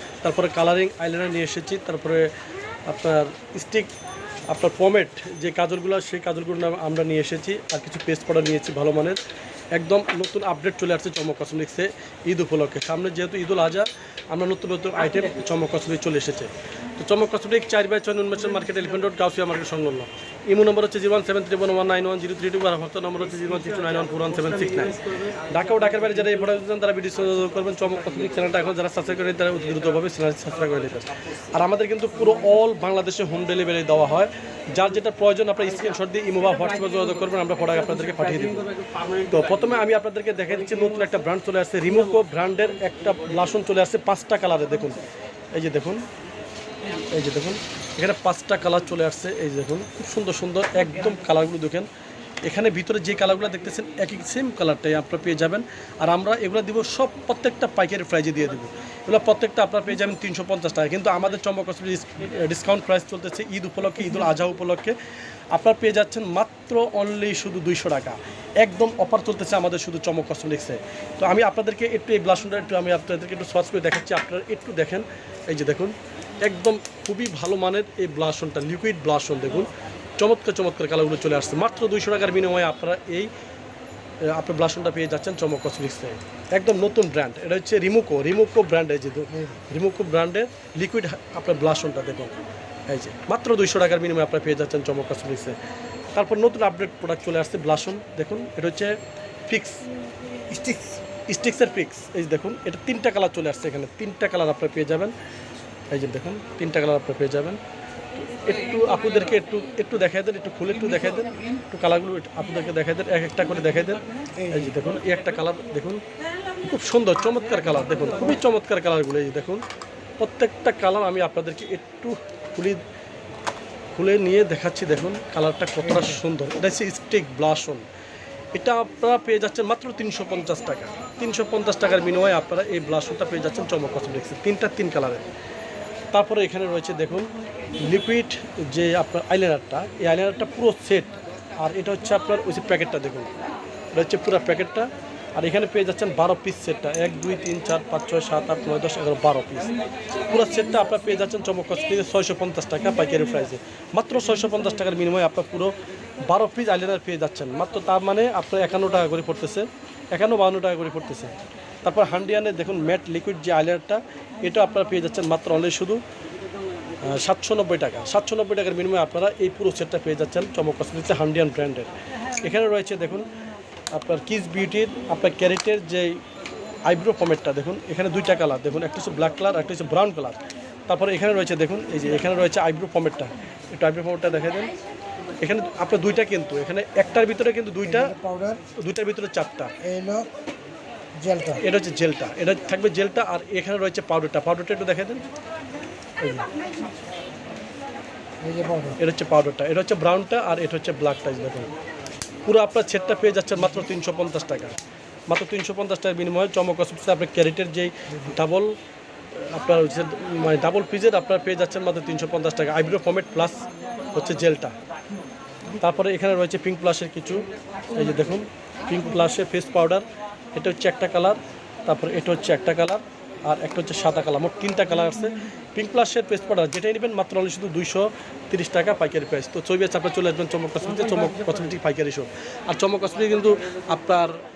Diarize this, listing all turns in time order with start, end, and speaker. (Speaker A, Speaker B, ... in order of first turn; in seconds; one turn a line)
Speaker A: 0.2-2.3
Speaker A: 2.9-3.9
Speaker A: 4.5-9.2
Speaker A: 9.7-45.0
Speaker A: 45.5-46.0
Speaker A: 47.0-51.9
Speaker A: 52.4-65.0
Speaker A: 65.5-83.3
Speaker A: 84.2-92.4
Speaker A: 92.9-95.6
Speaker A: 96.2-99.9
Speaker B: 100.5-101.0
Speaker A: 101.3-105.1
Speaker A: 105.9-107.6
Speaker A: 108.2-116.0
Speaker B: 114.4-114.8
Speaker A: 116.6-119.6
Speaker A: 120.2-122.8
Speaker A: 123.9-127.8
Speaker A: 128.5-135.3
Speaker A: 136.1-143.3
Speaker A: 143.9-149.7
Speaker A: 150.3-166.0
Speaker A: 167.0-173.3
Speaker A: 173.9-176.2
Speaker A: 176.9-184.7
Speaker A: 185.4-188.2
Speaker B: 187.9-188.6
Speaker A: 188.8-189.7
Speaker B: 189.8-190.3
Speaker B: 191.2-191.6
Speaker A: 191.6-195.2
Speaker A: 196.2-196.5
Speaker B: 198.4-199.0
Speaker A: 199.0-201.7
Speaker A: 202.4-204.8
Speaker A: 205.3-208.8
Speaker A: 209.3-214.8
Speaker A: 215.8-234.4